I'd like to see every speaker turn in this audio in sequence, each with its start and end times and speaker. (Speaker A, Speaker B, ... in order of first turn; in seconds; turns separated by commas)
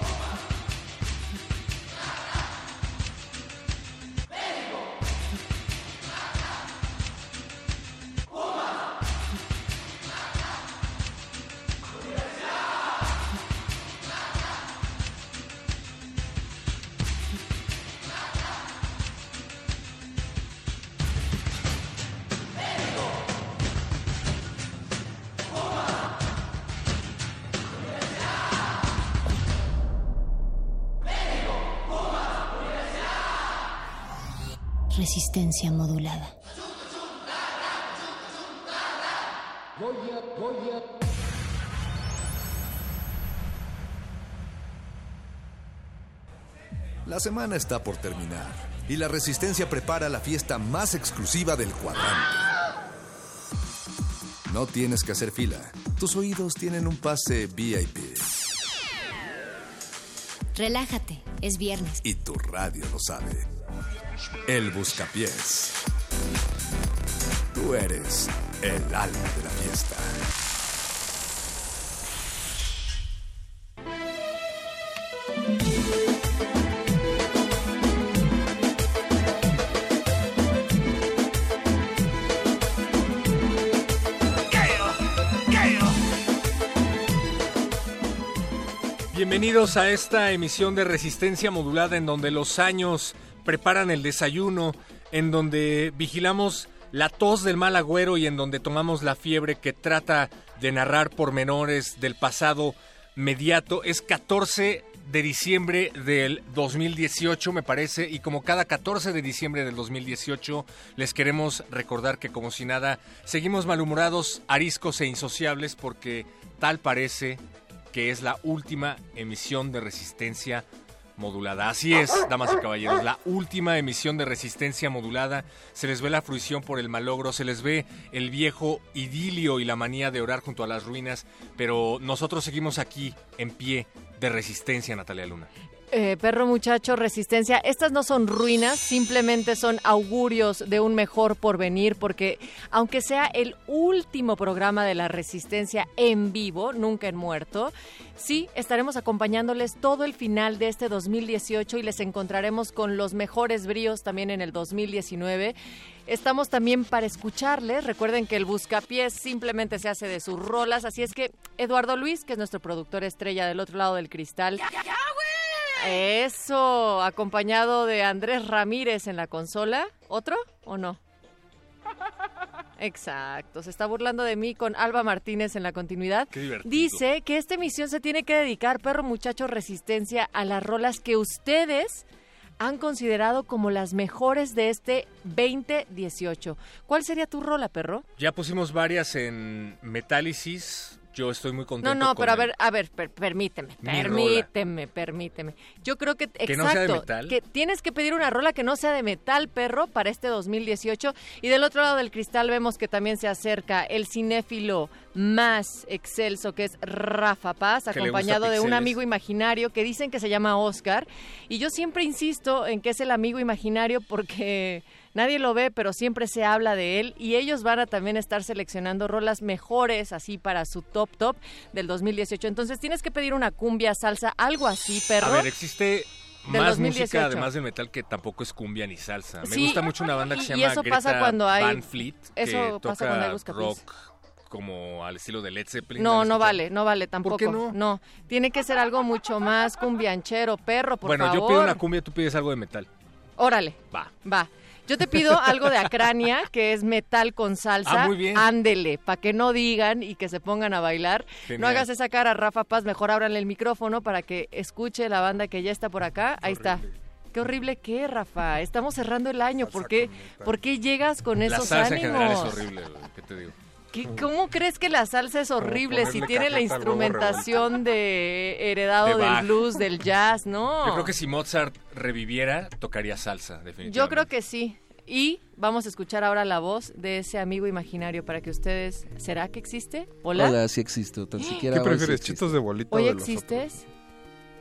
Speaker A: 34.9-36.3, Speaker B: 47.0-52.5, Speaker B: 54.5-58.3, Speaker A: 60.5-62.0, Speaker B: 62.0-63.5, Speaker B: 64.5-65.8, Speaker B: 67.5-70.1, Speaker C: 89.1-117.4, Speaker C: 117.9-120.7, Speaker C: 121.2-135.5, Speaker D: 135.9-164.6, Speaker D: 165.8-171.0, Speaker D: 172.8-182.1, Speaker C: 176.3-177.1, Speaker D: 182.6-188.1, Speaker C: 188.2-192.6, Speaker D: 191.8-225.5, Speaker C: 193.8-194.5, Speaker C: 196.4-197.4, Speaker C: 207.9-209.0, Speaker C: 225.2-237.8, Speaker D: 226.5-227.5, Speaker D: 229.4-233.8, Speaker D: 236.0-241.8, Speaker C: 241.0-242.9, Speaker D: 243.4-262.6, Speaker C: 245.2-246.0, Speaker C: 247.8-248.5, Speaker C: 251.4-251.9, Speaker E: 256.4-256.9, Speaker E: 259.6-260.6, Speaker C: 261.4-263.5, Speaker D: 263.9-271.1, Speaker E: 264.0-264.3, Speaker E: 265.6-267.8, Speaker C: 269.0-269.8, Speaker C: 270.8-274.3, Speaker D: 273.8-280.6, Speaker F: 280.3-282.6, Speaker D: 281.4-281.7, Speaker E: 281.6-283.7, Speaker D: 282.9-283.9